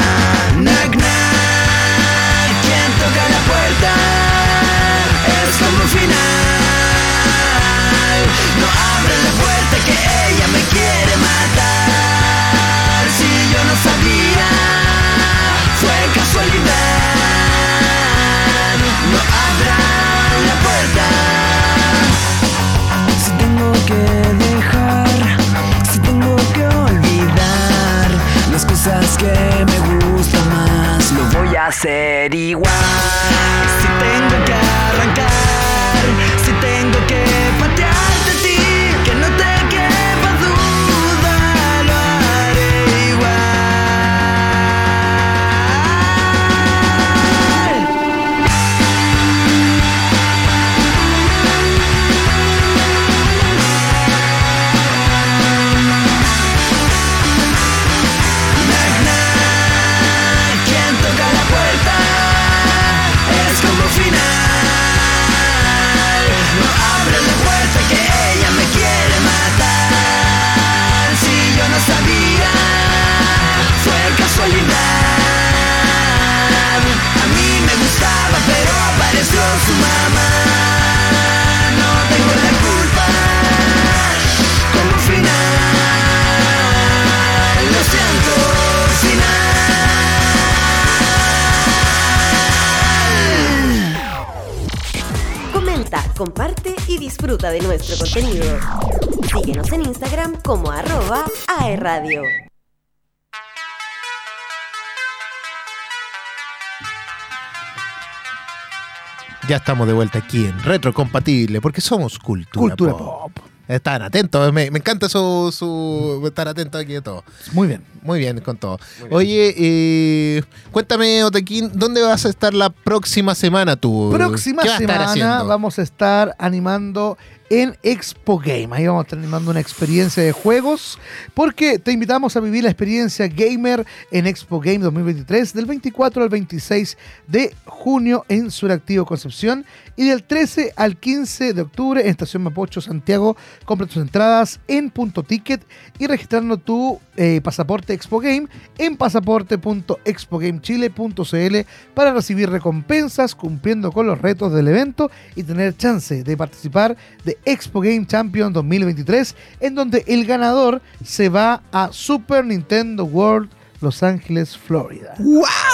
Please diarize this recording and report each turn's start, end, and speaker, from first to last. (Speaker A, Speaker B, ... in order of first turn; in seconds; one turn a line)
Speaker A: 0.5-22.2
Speaker A: 23.1-46.8
Speaker A: 47.5-47.8
Speaker A: 58.5-90.5
Speaker A: 92.9-93.5
Speaker B: 95.5-98.7
Speaker B: 99.3-102.4
Speaker C: 109.4-113.1
Speaker D: 112.6-113.5
Speaker C: 113.7-117.3
Speaker D: 117.5-117.9
Speaker C: 118.0-125.5
Speaker D: 124.1-165.3